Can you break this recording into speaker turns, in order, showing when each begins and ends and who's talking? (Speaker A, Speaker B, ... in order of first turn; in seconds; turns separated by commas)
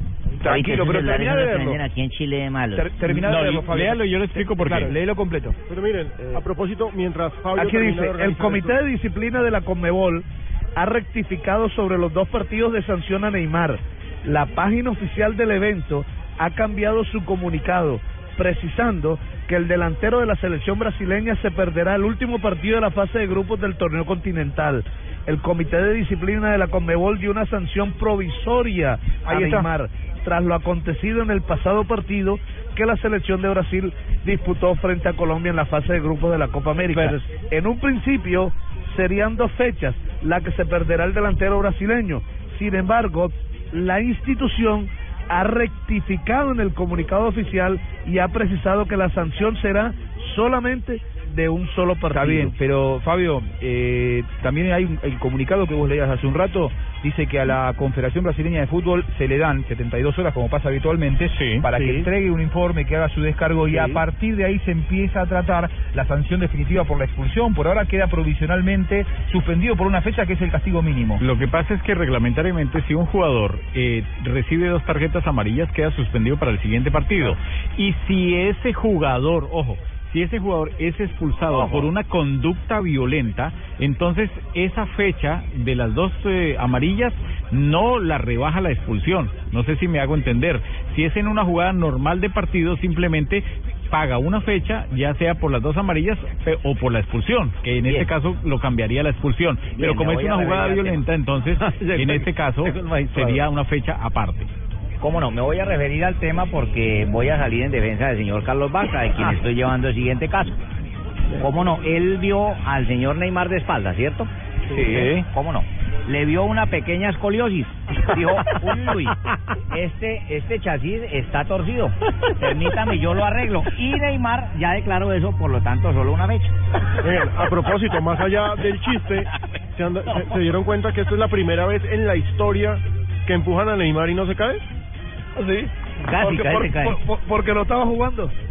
Speaker A: 0.4-1.8, Speaker B: 0.4-2.9, Speaker A: 2.7-5.5, Speaker C: 3.0-5.0, Speaker D: 5.7-8.8, Speaker E: 7.5-52.5, Speaker A: 29.2-29.7, Speaker A: 52.1-71.2, Speaker C: 61.3-61.7, Speaker C: 71.2-104.5, Speaker B: 81.5-81.8, Speaker B: 97.8-98.1, Speaker B: 99.7-101.1, Speaker B: 101.6-103.4, Speaker B: 105.0-110.6, Speaker B: 111.3-114.3, Speaker B: 114.8-119.1, Speaker C: 114.8-115.2, Speaker B: 119.7-126.5, Speaker D: 127.0-134.6, Speaker E: 135.3-138.3, Speaker B: 136.0-137.0